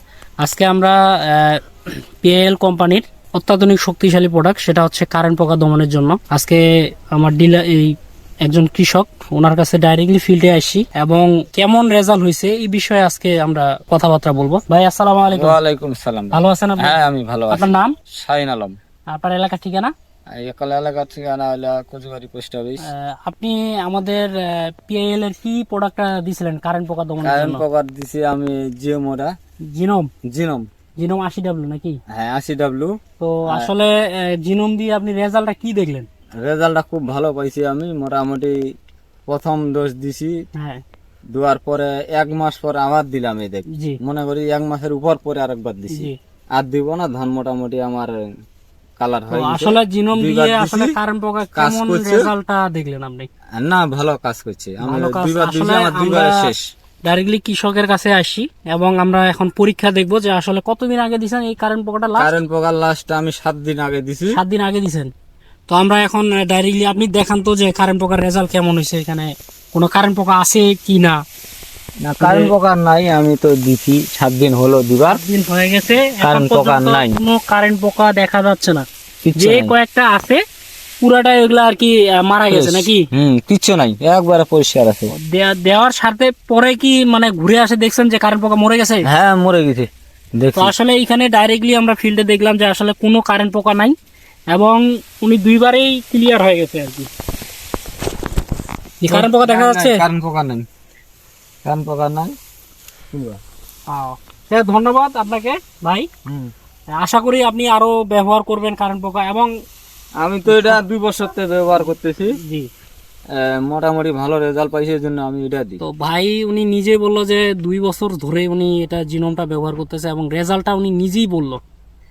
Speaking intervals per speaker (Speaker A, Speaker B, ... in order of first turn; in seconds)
Speaker A: 0.4-1.6, 2.2-6.6, 7.1-7.9, 8.4-15.6, 16.3-16.9, 17.5-17.9, 19.1-19.9, 22.8-27.6, 29.7-30.1, 31.0-32.0, 33.2-36.1, 40.6-40.8, 43.7-44.0, 49.3-53.3, 54.8-56.5, 57.0-62.3, 64.3-65.1, 65.7-71.2, 72.2-72.5, 75.1-78.8, 79.3-80.4, 81.0-83.1, 85.1-89.0, 90.5-93.9, 94.5-97.1, 99.0-100.0, 103.9-106.1, 106.9-109.5, 110.5-110.8, 112.4-112.7, 115.8-121.6
Speaker B: 15.3-18.7, 20.4-22.9, 27.2-29.3, 30.3-30.7, 32.1-32.9, 36.4-38.5, 39.3-40.4, 41.3-48.2, 49.0-50.9, 51.5-52.3, 53.6-56.6, 62.2-64.4, 72.0-75.2, 76.2-77.2, 79.2-79.7, 82.5-85.1, 89.1-89.9, 90.4-90.7, 99.1-100.6, 101.6-102.3, 103.1-103.4, 106.3-106.5, 110.2-112.3, 113.3-115.8